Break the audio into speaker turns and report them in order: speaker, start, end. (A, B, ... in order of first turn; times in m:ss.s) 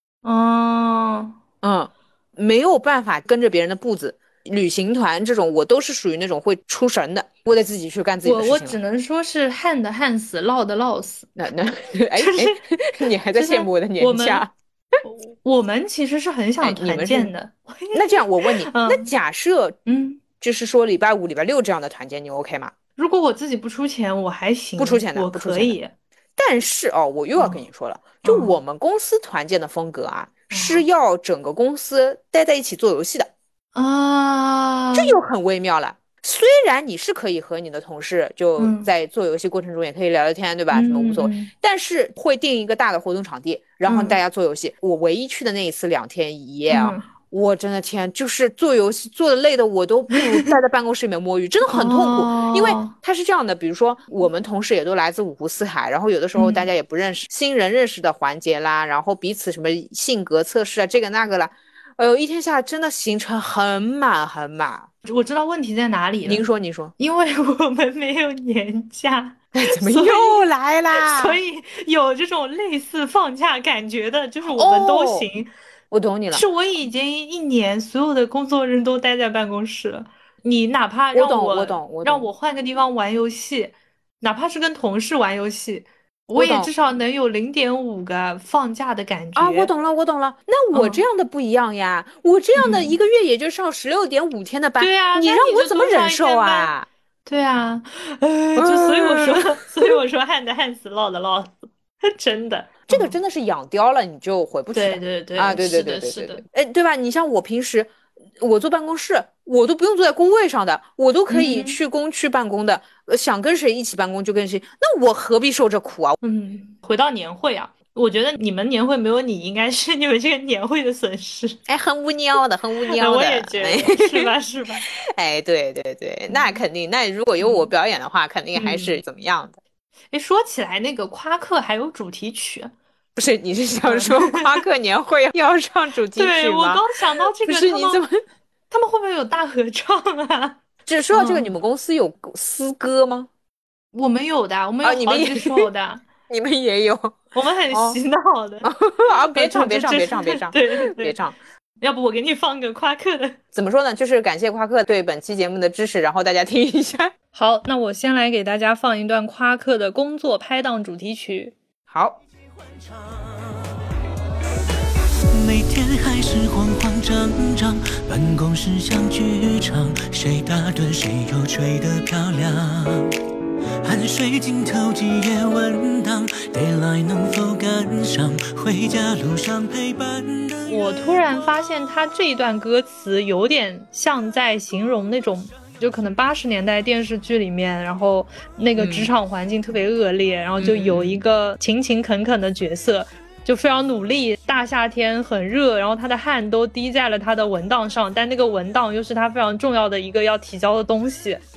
0:00.2-0:01.4 A
0:01.6-0:08.8 B
0:08.2-0:11.3 A
0:11.4-0:14.5 B
0:12.2-0:12.6 A
0:13.3-0:14.5 A
0:15.0-0:19.1 A
0:16.6-0:17.3 B
0:17.9-0:19.8 B
0:19.9-0:20.2 A
0:20.4-0:22.8 B
0:23.0-0:25.9 A
0:24.8-0:25.8 B
0:26.4-0:33.3 B
0:27.4-0:27.6 A
0:28.2-0:28.6 A
0:30.5-0:30.8 A
0:33.8-0:35.2 A
0:35.0-1:04.9 B
0:38.6-0:38.9 A
0:40.7-0:41.5 A
0:43.9-0:44.2 A
0:46.7-0:47.1 A
0:50.2-0:50.5 A
0:51.6-0:52.9 A
0:56.4-0:56.7 A
1:05.0-1:06.4 A
1:06.2-1:06.9 B
1:07.0-1:15.5 A
1:09.6-1:11.4 B
1:14.4-1:15.3 B
1:15.9-1:16.5 B
1:16.3-1:29.7 A
1:21.1-1:22.3 B
1:26.4-1:26.7 B
1:29.4-1:36.9 B
1:30.7-1:31.0 A
1:32.6-1:33.0 A
1:34.8-1:36.7 A
1:37.3-1:43.2 A
1:38.6-1:40.0 B
1:42.9-1:56.2 B
1:44.7-1:46.4 A
1:51.3-1:51.8 A
1:56.2-2:01.6 A
2:01.7-2:04.3 B
2:02.9-2:04.9 A
2:05.0-2:09.6 B
2:06.3-2:06.6 A
2:07.4-2:07.7 A
2:08.5-2:09.0 A
2:10.1-2:12.7 A
2:13.2-2:16.8 B
2:13.8-2:14.6 A
2:16.2-2:18.1 A
2:17.4-2:18.2 B
2:18.7-2:20.6 A
2:20.9-2:23.3 B
2:21.1-2:21.5 A
2:23.9-2:26.0 A
2:24.8-2:25.7 B
2:26.3-2:28.0 B
2:27.3-2:28.7 A
2:28.6-2:31.4 B
2:29.3-2:31.2 A
2:31.8-2:33.4 A
2:33.5-2:37.1 B
2:37.3-2:41.6 A
2:41.9-2:42.2 B
2:42.5-2:43.7 C
2:45.3-2:53.2 C
2:53.8-3:01.2 C
3:00.7-3:21.4 A
3:08.8-3:09.1 B
3:10.6-3:11.2 B